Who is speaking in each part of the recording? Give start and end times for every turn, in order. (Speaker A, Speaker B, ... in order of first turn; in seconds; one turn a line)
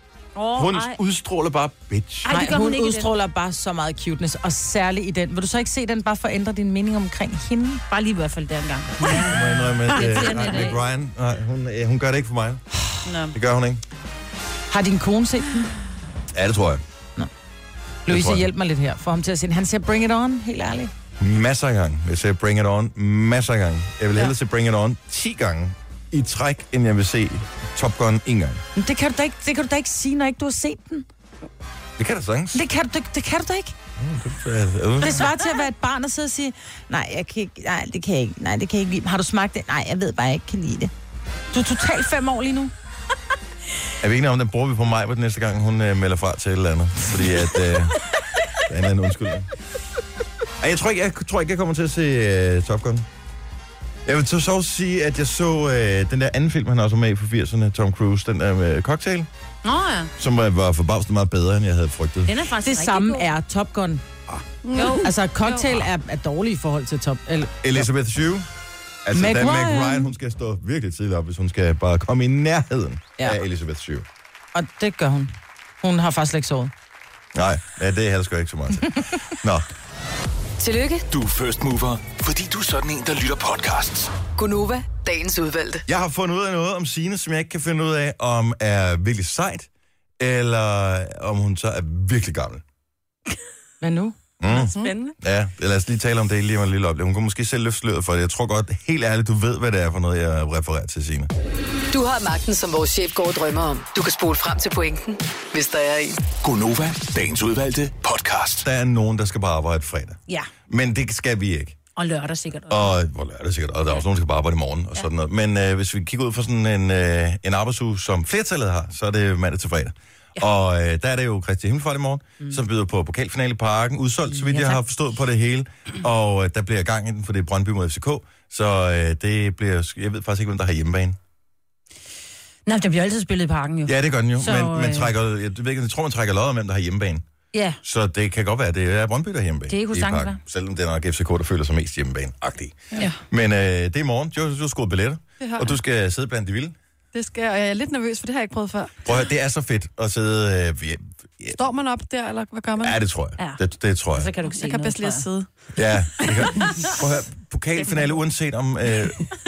Speaker A: 0.3-1.0
Speaker B: 0.6-2.3
Speaker A: 2.2-3.1
Speaker C: 2.3-7.8
Speaker A: 7.9-10.8
Speaker B: 9.2-12.6
Speaker A: 13.1-13.3
Speaker B: 13.3-13.8
Speaker C: 14.7-15.7
Speaker B: 16.3-16.8
Speaker C: 18.1-20.9
Speaker B: 18.1-18.5
Speaker B: 21.2-28.6
Speaker C: 28.8-31.1
Speaker B: 32.0-32.6
Speaker C: 32.5-33.8
Speaker B: 34.0-35.3
Speaker C: 35.0-40.9
Speaker C: 41.5-42.7
Speaker B: 44.0-48.0
Speaker B: 48.6-49.5
Speaker B: 50.6-53.1
Speaker B: 54.1-59.3
Speaker A: 59.6-60.1
Speaker B: 60.2-62.3
Speaker A: 62.2-63.3
Speaker C: 62.6-64.0
Speaker D: 64.6-65.1
Speaker A: 64.7-65.8
Speaker C: 65.0-67.6
Speaker B: 67.6-68.5
Speaker B: 69.0-74.1
Speaker C: 69.2-70.1
Speaker C: 74.5-76.7
Speaker B: 77.3-79.7
Speaker E: 80.6-81.1
Speaker F: 81.1-84.1
Speaker E: 84.4-85.8
Speaker B: 85.9-89.7
Speaker B: 90.2-92.6
Speaker C: 93.8-94.2
Speaker B: 94.4-101.3
Speaker A: 94.5-95.2
Speaker D: 94.6-94.9
Speaker E: 101.9-106.2
Speaker F: 106.4-108.7
Speaker B: 108.6-111.8
Speaker A: 112.0-112.9
Speaker B: 112.7-131.2
Speaker A: 124.4-124.8
Speaker A: 132.7-135.1
Speaker B: 133.9-137.2
Speaker A: 137.5-137.8
Speaker B: 137.8-146.8
Speaker A: 139.7-140.4
Speaker D: 145.4-145.8
Speaker D: 147.1-148.9
Speaker B: 149.1-151.6
Speaker D: 151.6-153.0
Speaker B: 152.8-154.3
Speaker A: 154.2-155.3
Speaker D: 154.4-155.5
Speaker B: 155.8-159.3